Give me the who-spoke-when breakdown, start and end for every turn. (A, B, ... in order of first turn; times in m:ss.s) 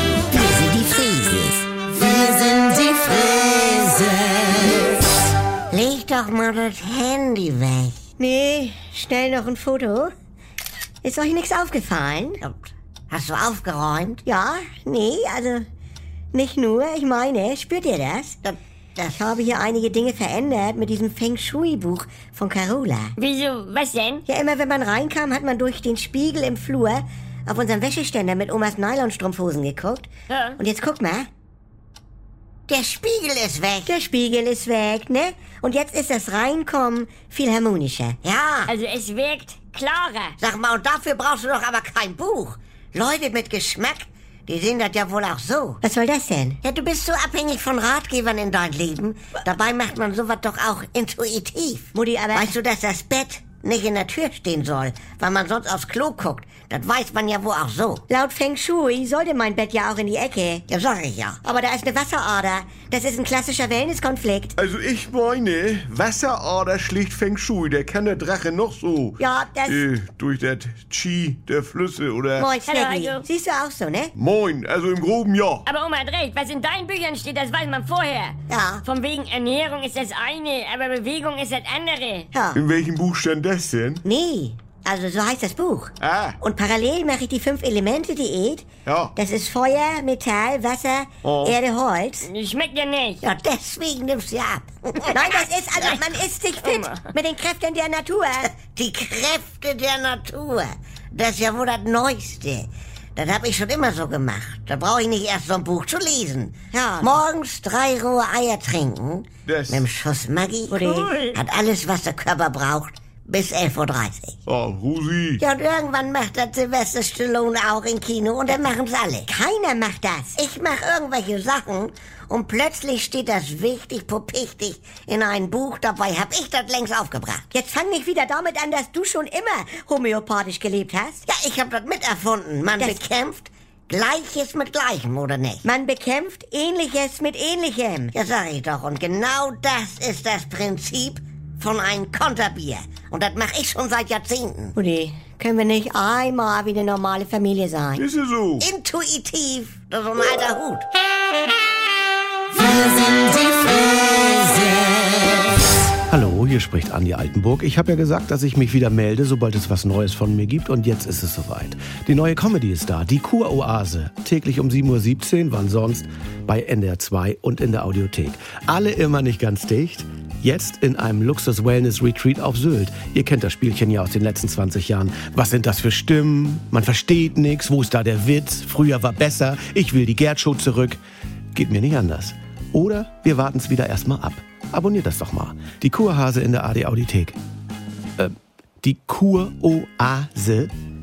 0:00.3-0:01.7 A
0:02.8-0:04.8 A
0:05.7-0:08.0 A
0:08.2-0:10.1 B
0:11.0-0:12.4 B
0:13.1-0:14.2 A
0:14.2-0:15.7 B
0:16.3-0:18.4 B
0:18.4-0:19.2 A
0:19.1-0:23.2 B
0:23.2-0:24.2 C
0:24.3-0:31.3 B
0:30.3-0:30.6 C
0:32.7-0:33.9 A
0:33.8-0:38.2 B
0:38.2-0:38.7 A
0:38.7-0:40.4 C
0:40.4-0:45.8 A
0:45.8-0:46.6 B
0:46.6-0:58.0 A
0:51.9-0:52.6 B
0:58.1-1:00.6 B
1:00.7-1:01.4 A
1:01.4-1:04.6 B
1:04.6-1:12.5 D
1:09.2-1:09.8 B
1:12.4-1:14.1 B
1:12.7-1:13.3 C
1:14.2-1:15.6 D
1:15.7-1:22.3 C
1:18.5-1:18.8 B
1:22.3-1:22.6 B
1:22.5-1:24.0 D
1:24.0-1:32.3 B
1:26.0-1:26.4 D
1:28.9-1:29.1 D
1:31.2-1:31.6 D
1:32.2-1:33.2 C
1:33.2-1:36.0 A
1:35.1-1:38.5 B
1:36.6-1:37.0 C
1:38.4-1:54.4 A
1:46.7-1:47.2 B
1:49.5-1:49.9 D
1:50.7-1:51.2 B
1:50.8-1:51.4 C
1:54.5-1:55.4 D
1:55.4-1:59.3 A
1:59.3-2:00.4 B
2:00.4-2:07.4 A
2:07.5-2:11.3 B
2:11.3-2:15.6 A
2:15.6-2:18.1 B
2:18.1-2:24.8 A
2:24.8-2:28.0 B
2:28.0-2:28.7 D
2:28.6-2:30.9 A
2:36.1-3:01.0 E
3:01.5-3:07.4 E
3:08.2-3:10.7 E